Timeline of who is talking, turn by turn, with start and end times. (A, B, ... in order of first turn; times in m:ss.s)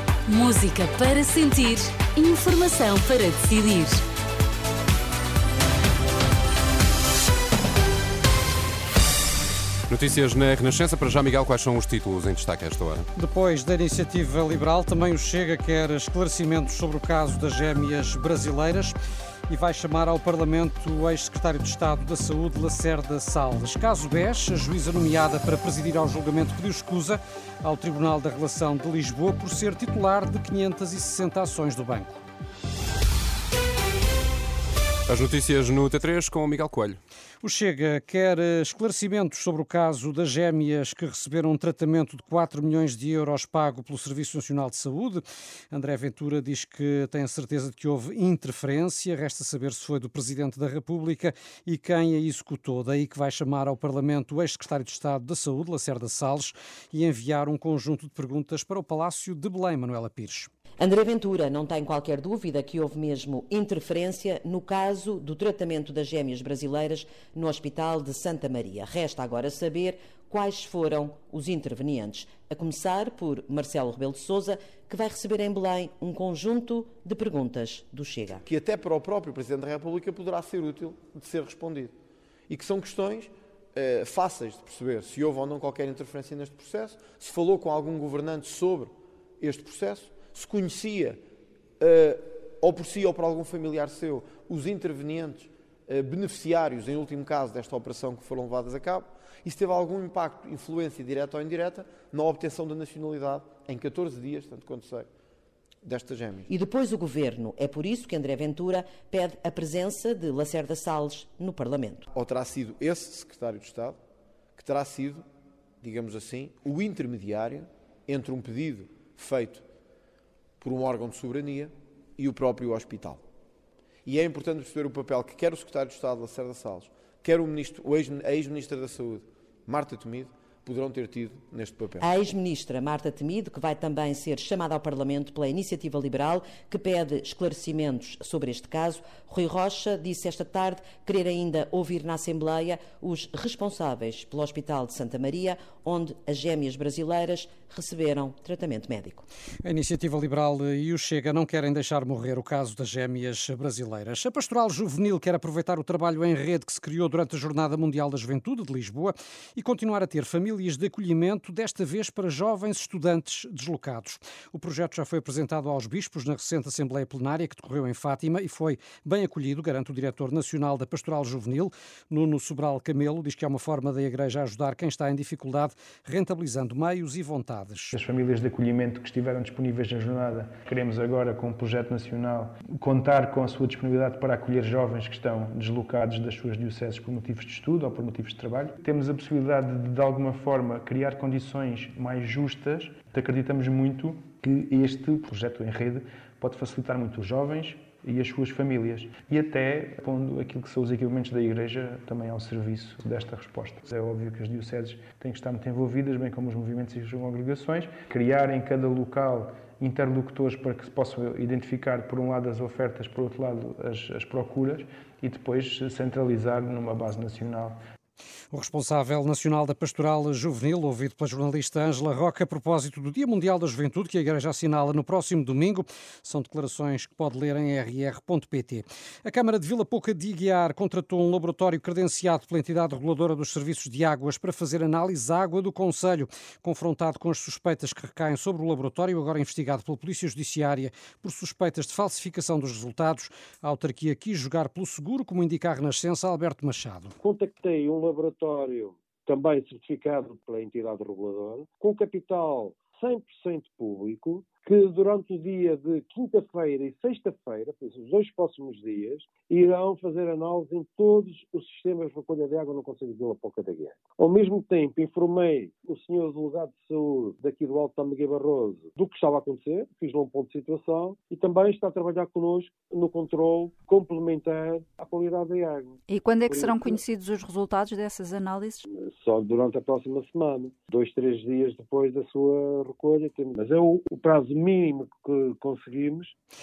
0:00.3-0:04.0 A
0:09.9-0:13.1 B
0:13.1-0:19.0 C
0:19.5-0:32.2 C
0:35.1-0:37.0 B
0:37.4-1:00.5 C
1:00.8-1:18.4 D
1:18.5-1:21.9 E
1:22.5-1:31.2 E
1:31.8-1:45.1 E
1:45.8-1:46.5 E
1:46.5-1:52.0 D
1:52.1-1:54.0 E
1:54.6-1:55.2 E
1:55.8-1:59.6 E
2:00.6-2:03.2 E
2:04.0-2:12.1 E
2:12.0-2:29.2 D
2:29.6-2:57.9 C
2:57.9-3:37.8 F
3:38.5-4:07.1 C
4:07.2-4:37.0 G
4:36.1-4:38.8 H
4:38.8-4:46.3 G